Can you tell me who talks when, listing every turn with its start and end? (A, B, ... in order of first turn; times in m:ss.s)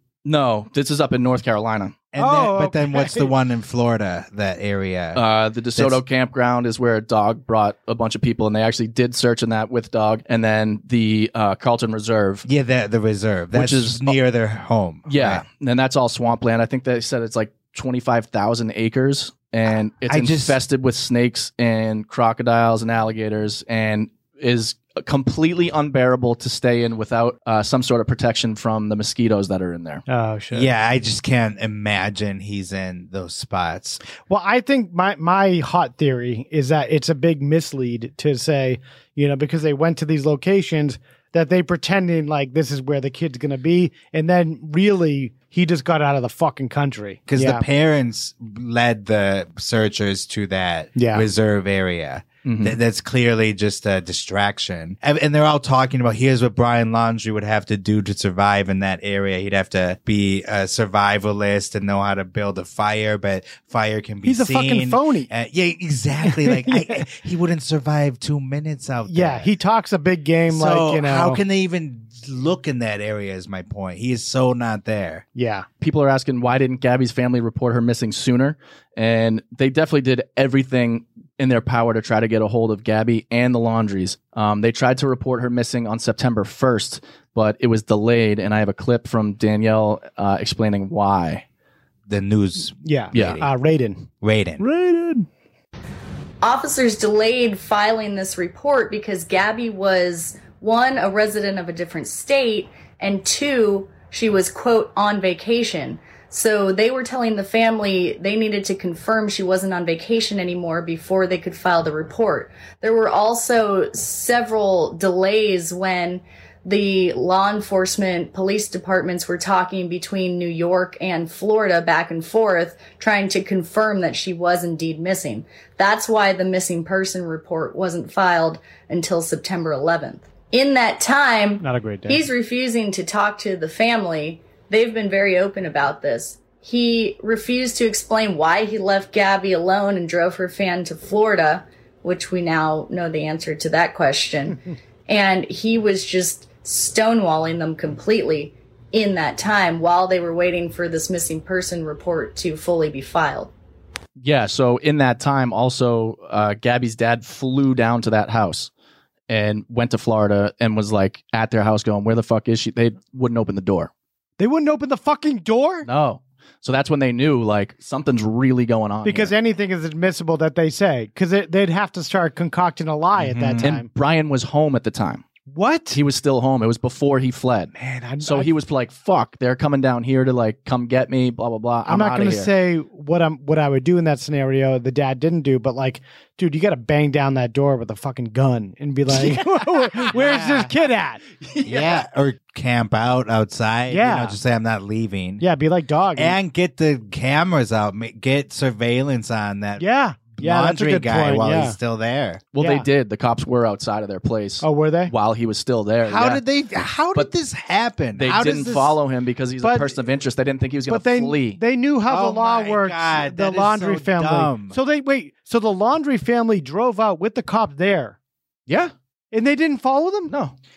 0:00.2-0:02.0 A
0:02.1-0:05.2 B
0:02.2-0:03.3 C
0:05.2-0:12.4 A
0:05.8-0:06.0 B
0:12.4-0:15.4 B
0:13.5-0:14.2 A
0:15.1-0:30.0 A
0:20.1-0:20.6 B
0:30.1-0:30.7 C
0:30.5-0:34.0 B
0:34.3-0:47.6 C
0:47.3-1:09.5 B
0:51.0-0:51.3 C
0:52.4-0:52.8 A
1:04.2-1:05.3 C
1:06.3-1:07.0 C
1:09.1-1:11.4 C
1:10.5-1:15.2 B
1:15.4-1:15.7 C
1:15.8-1:31.4 A
1:32.1-1:33.5 B
1:32.8-1:34.1 C
1:33.1-1:33.4 A
1:34.2-1:34.6 B
1:34.6-1:35.3 C
1:36.4-2:24.6 D
2:11.6-2:12.2 C
2:25.1-2:33.5 D
2:34.2-2:38.7 A
2:39.3-2:43.9 A
2:44.4-2:45.9 C
2:45.8-2:49.3 A
2:49.0-2:53.9 C
2:53.2-2:53.7 B
2:53.6-2:55.2 A
2:55.5-2:56.0 C
2:55.9-3:02.5 A
2:57.8-2:58.5 C
3:01.9-3:11.2 C
3:10.1-3:10.7 B
3:11.5-3:11.9 A
3:11.6-3:15.4 B
3:13.9-3:14.4 C
3:15.4-3:16.4 C
3:16.2-3:22.4 B
3:19.8-3:21.8 C
3:22.5-3:26.4 A
3:22.6-3:22.9 C
3:24.6-3:25.1 C
3:26.0-3:29.0 B
3:28.2-3:31.6 A
3:29.6-3:29.9 C
3:30.9-3:38.2 C
3:32.1-3:34.8 B
3:38.7-3:38.9 A
3:39.3-3:40.3 C
3:40.3-3:40.6 A